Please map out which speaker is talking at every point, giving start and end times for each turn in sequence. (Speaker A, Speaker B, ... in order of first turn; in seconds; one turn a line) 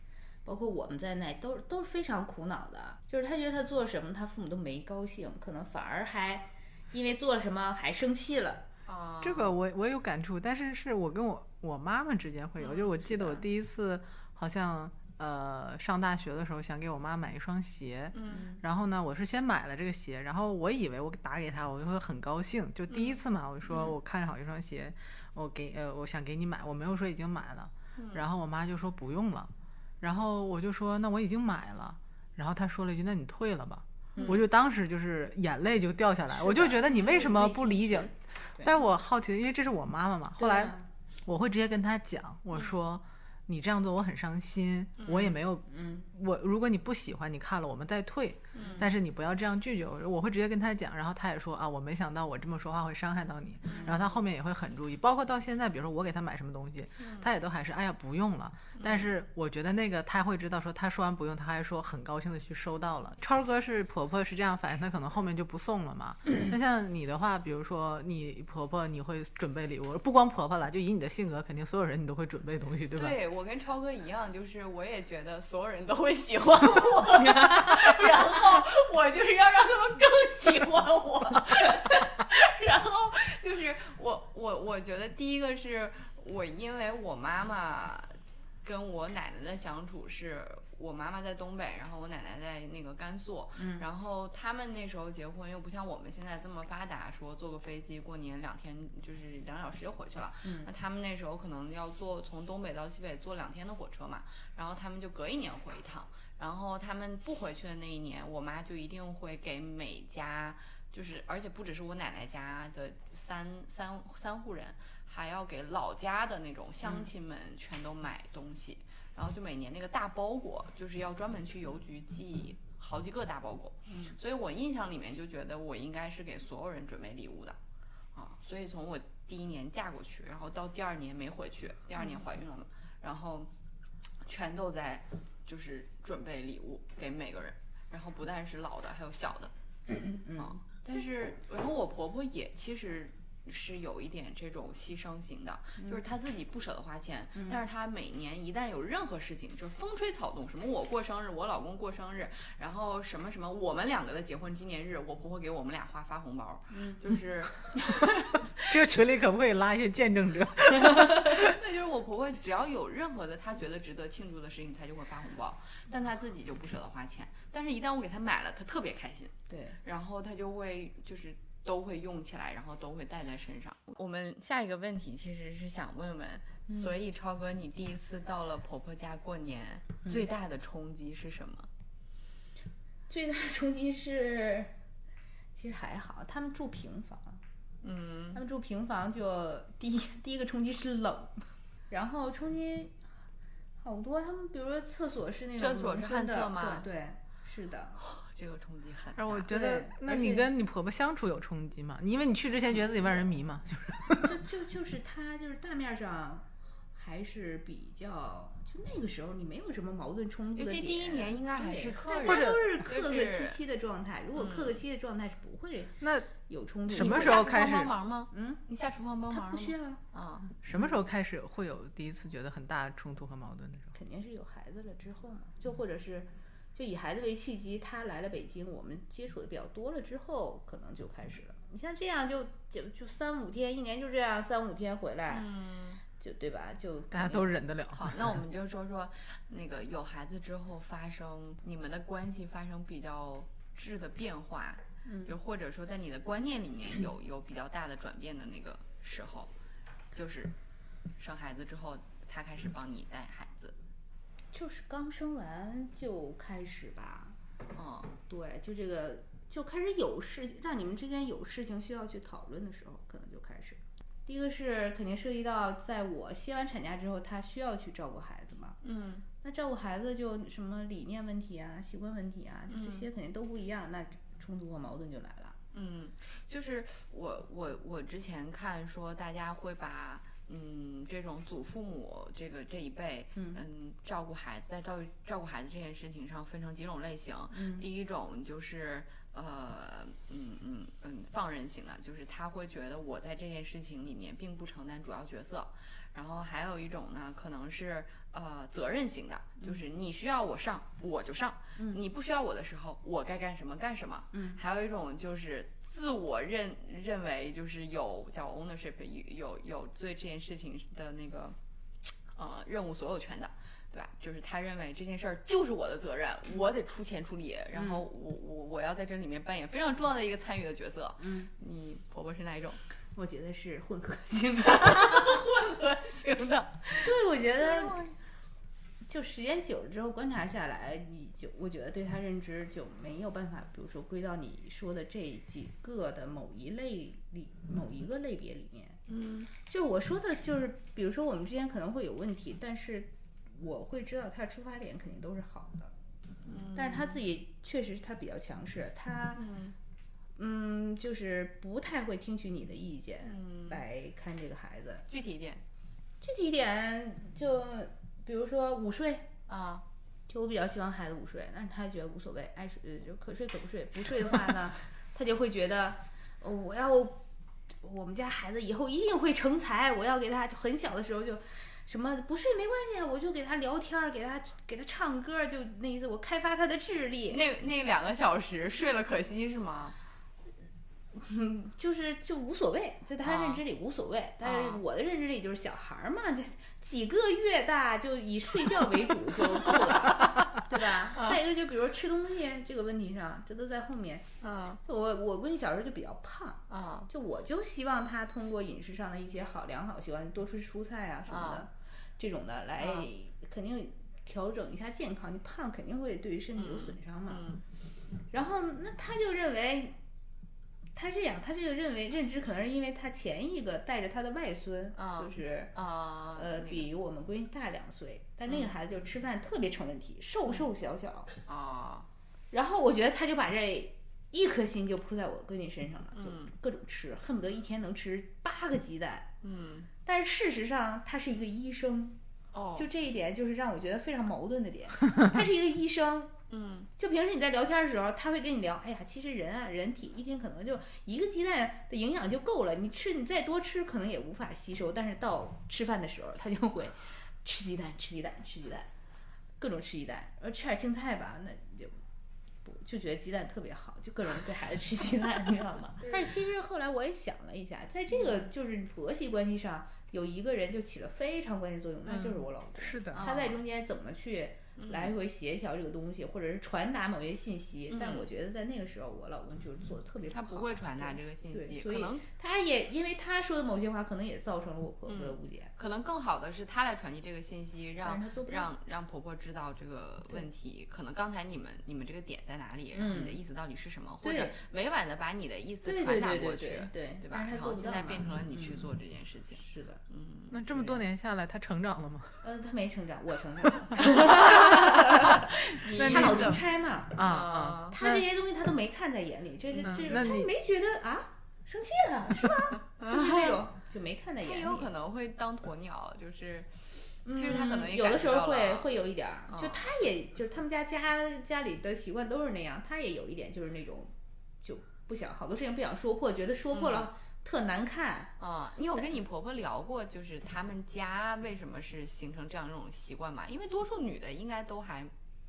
Speaker A: 0.4-8.7
Speaker B: 8.9-9.5
Speaker C: 9.2-73.2
Speaker B: 12.6-13.4
Speaker B: 18.1-18.5
Speaker A: 18.3-18.6
Speaker B: 22.9-23.2
Speaker B: 28.0-28.2
Speaker A: 34.1-34.4
Speaker A: 36.3-38.7
Speaker B: 36.8-37.6
Speaker A: 40.4-40.9
Speaker B: 45.0-45.3
Speaker A: 45.7-46.1
Speaker B: 48.5-48.9
Speaker B: 53.6-54.0
Speaker A: 53.8-54.0
Speaker B: 57.0-57.3
Speaker B: 58.8-59.1
Speaker B: 72.9-127.6
Speaker A: 93.5-93.9
Speaker A: 100.4-100.7
Speaker A: 123.9-124.2
Speaker B: 128.1-133.5
Speaker B: 134.2-139.5
Speaker A: 139.9-140.6
Speaker B: 140.4-158.7
Speaker A: 156.7-157.0
Speaker C: 158.6-161.6
Speaker B: 160.9-181.7
Speaker A: 169.5-169.8
Speaker A: 176.7-176.9
Speaker A: 183.1-184.7
Speaker A: 185.5-187.4
Speaker B: 187.8-188.4
Speaker A: 188.3-193.0
Speaker A: 193.8-198.0
Speaker B: 195.6-196.9
Speaker B: 197.9-199.5
Speaker C: 199.2-204.4
Speaker A: 199.5-200.5
Speaker A: 204.2-217.7
Speaker B: 210.6-213.6
Speaker C: 212.2-212.6
Speaker B: 214.4-214.8
Speaker C: 216.0-216.3
Speaker C: 216.9-217.9
Speaker B: 216.9-220.5
Speaker A: 218.3-218.6
Speaker A: 219.3-220.0
Speaker C: 220.6-223.9
Speaker A: 223.9-235.5
Speaker B: 235.3-236.0
Speaker A: 236.1-237.5
Speaker C: 237.1-238.4
Speaker B: 237.9-249.5
Speaker A: 245.0-245.3
Speaker B: 250.1-250.5
Speaker B: 251.2-253.8
Speaker A: 254.5-257.4
Speaker B: 257.7-258.1
Speaker A: 258.2-268.8
Speaker B: 268.8-269.2
Speaker A: 269.4-275.6
Speaker B: 272.7-273.1
Speaker B: 275.7-311.6
Speaker A: 283.3-283.6
Speaker A: 287.5-287.9
Speaker A: 304.3-304.6
Speaker B: 312.3-322.8
Speaker A: 317.7-318.0
Speaker A: 321.2-321.5
Speaker A: 323.1-325.4
Speaker B: 324.6-328.1
Speaker A: 327.0-328.0
Speaker A: 329.1-345.9
Speaker B: 339.1-339.5
Speaker B: 346.4-347.2
Speaker A: 346.7-349.4
Speaker B: 349.3-349.8
Speaker A: 350.4-355.0
Speaker B: 353.2-353.8
Speaker B: 355.1-355.6
Speaker A: 356.2-359.3
Speaker B: 359.5-359.8
Speaker A: 360.3-367.2
Speaker A: 367.8-377.4
Speaker B: 377.3-379.9
Speaker A: 381.1-394.3
Speaker B: 383.2-383.6
Speaker B: 384.4-384.8
Speaker B: 389.7-391.4
Speaker B: 394.4-394.8
Speaker A: 394.8-407.4
Speaker B: 396.7-397.1
Speaker B: 401.3-401.6
Speaker B: 402.8-403.1
Speaker B: 406.6-407.6
Speaker A: 408.3-410.0
Speaker A: 410.9-415.8
Speaker B: 414.9-416.9
Speaker A: 416.3-421.3
Speaker B: 418.5-418.7
Speaker B: 421.5-422.1
Speaker A: 422.5-429.3
Speaker B: 426.1-426.5
Speaker B: 429.4-429.9
Speaker A: 430.0-432.2
Speaker B: 432.5-432.9
Speaker A: 432.8-436.4
Speaker B: 436.5-436.9
Speaker A: 437.0-448.9
Speaker A: 449.6-451.9
Speaker A: 452.6-475.7
Speaker B: 458.2-458.4
Speaker C: 462.1-463.2
Speaker B: 463.1-463.6
Speaker B: 464.8-465.1
Speaker B: 467.9-468.3
Speaker B: 470.3-472.2
Speaker B: 475.1-490.6
Speaker A: 478.0-478.7
Speaker A: 482.9-483.4
Speaker A: 484.2-484.6
Speaker A: 485.8-488.9
Speaker A: 489.6-490.0
Speaker C: 490.5-492.4
Speaker A: 490.7-491.0
Speaker A: 492.4-497.2
Speaker B: 494.0-496.6
Speaker C: 495.9-498.2
Speaker B: 497.1-498.0
Speaker A: 497.9-504.9
Speaker B: 499.7-500.1
Speaker C: 499.8-500.5
Speaker B: 503.0-503.6
Speaker B: 504.4-508.9
Speaker A: 507.2-518.3
Speaker B: 509.5-509.8
Speaker B: 516.7-517.1
Speaker B: 518.4-525.1